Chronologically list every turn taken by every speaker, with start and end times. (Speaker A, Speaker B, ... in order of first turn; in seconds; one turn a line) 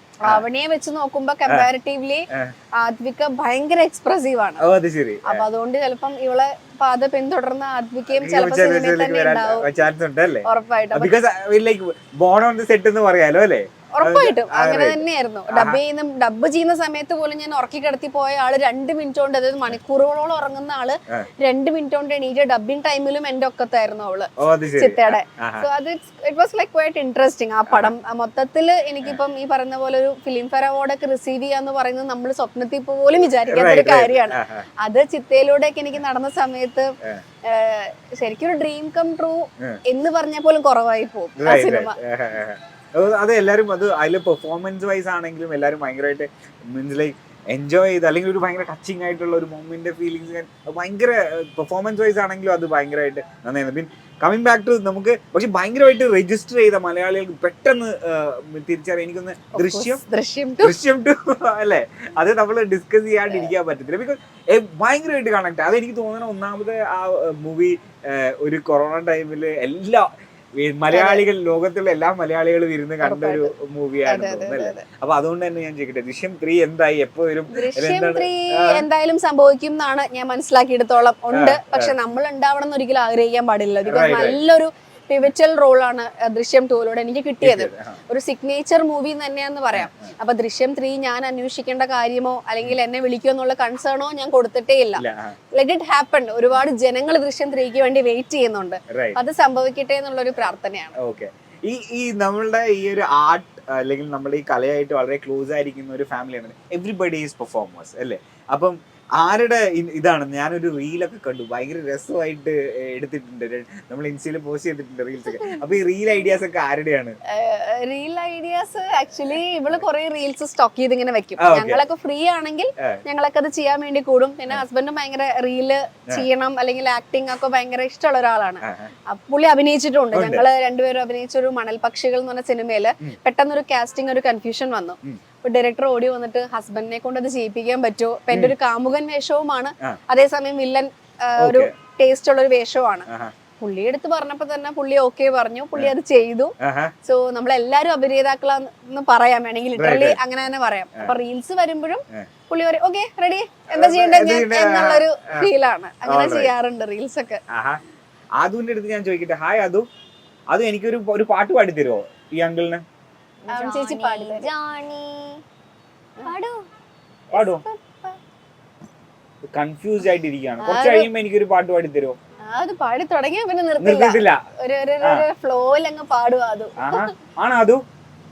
Speaker A: 0.2-4.7
Speaker B: 4.6-5.5
Speaker A: 5.3-9.7
Speaker B: 8.1-15.8
Speaker A: 10.5-11.1
Speaker A: 13.9-36.9
Speaker B: 24.4-25.7
Speaker B: 33.5-34.7
Speaker A: 37.5-42.0
Speaker B: 41.4-60.0
Speaker A: 59.5-60.8
Speaker B: 60.6-78.8
Speaker A: 70.9-71.2
Speaker A: 73.0-73.5
Speaker A: 74.1-74.8
Speaker A: 77.5-95.0
Speaker B: 81.3-82.0
Speaker B: 83.9-84.4
Speaker B: 87.4-88.0
Speaker B: 89.7-90.1
Speaker B: 95.0-95.4
Speaker A: 95.5-101.0
Speaker B: 98.9-99.2
Speaker B: 100.3-117.2
Speaker A: 117.3-143.1
Speaker B: 121.4-121.8
Speaker B: 128.6-128.9
Speaker B: 130.1-130.4
Speaker B: 141.4-141.7
Speaker A: 143.6-146.5
Speaker B: 146.6-146.9
Speaker A: 147.1-157.4
Speaker B: 149.8-150.2
Speaker B: 153.7-155.5
Speaker B: 156.1-156.5
Speaker B: 157.5-157.8
Speaker B: 158.4-159.9
Speaker B: 160.5-162.8
Speaker C: 163.4-165.4
Speaker A: 163.5-164.5
Speaker C: 166.3-166.7
Speaker A: 167.3-168.2
Speaker B: 167.3-167.6
Speaker B: 169.5-172.2
Speaker A: 170.6-171.1
Speaker A: 172.5-177.1
Speaker B: 173.8-174.4
Speaker B: 175.0-175.3
Speaker B: 176.8-177.8